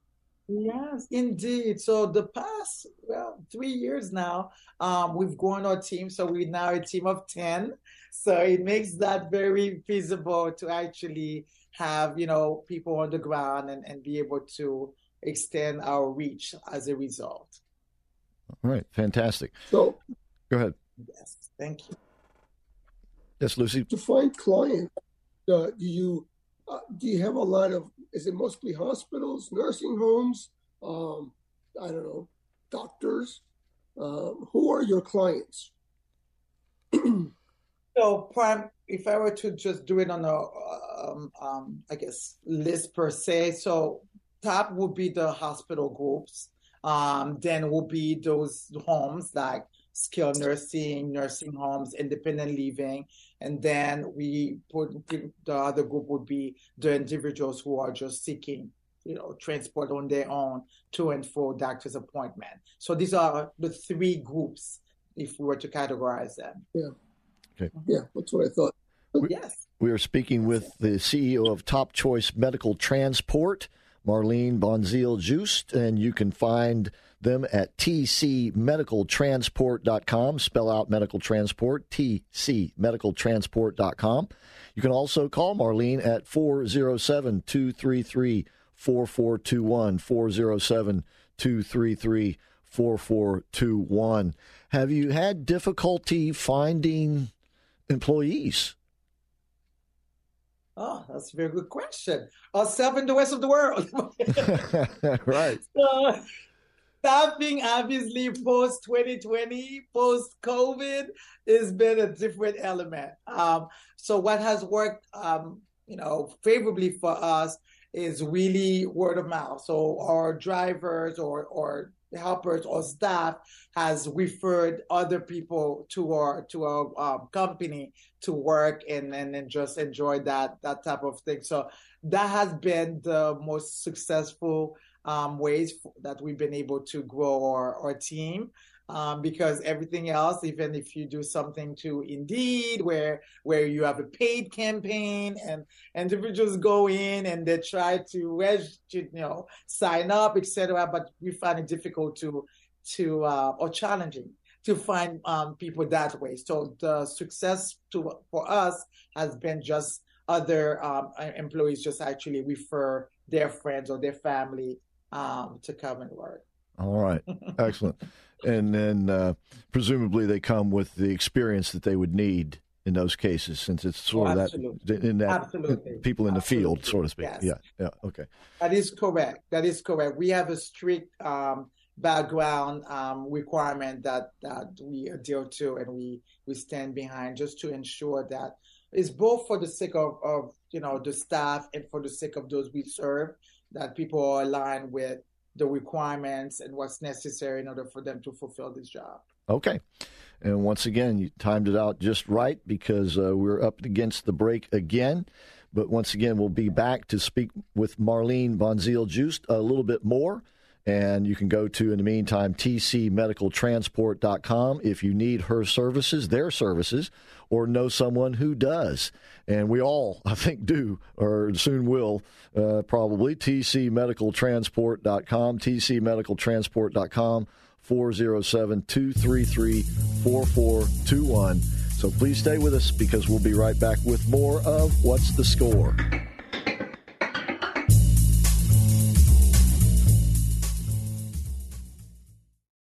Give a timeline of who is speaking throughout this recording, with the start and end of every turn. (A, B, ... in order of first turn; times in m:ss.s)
0:00.5-0:17.6 A
0:18.6-0:19.5 B
0:19.7-0:20.0 C
0:20.5-0:20.7 B
0:21.2-0:21.9 A
0:23.4-0:23.9 B
0:23.9-0:24.9 C
0:25.5-0:33.4 C
0:34.0-0:35.7 C
0:36.9-0:37.3 C
0:37.9-1:06.6 A
1:07.8-1:09.3 C
1:09.2-1:09.6 A
1:09.8-1:37.3 B
1:37.9-1:38.7 B
1:40.8-1:44.7 A
1:44.5-1:45.6 B
1:45.6-1:46.2 A
1:47.0-2:46.4 A
2:46.8-2:58.3 B
2:54.1-2:57.5 A
2:58.6-3:19.2 A
3:19.5-3:19.8 B
3:20.4-3:56.0 B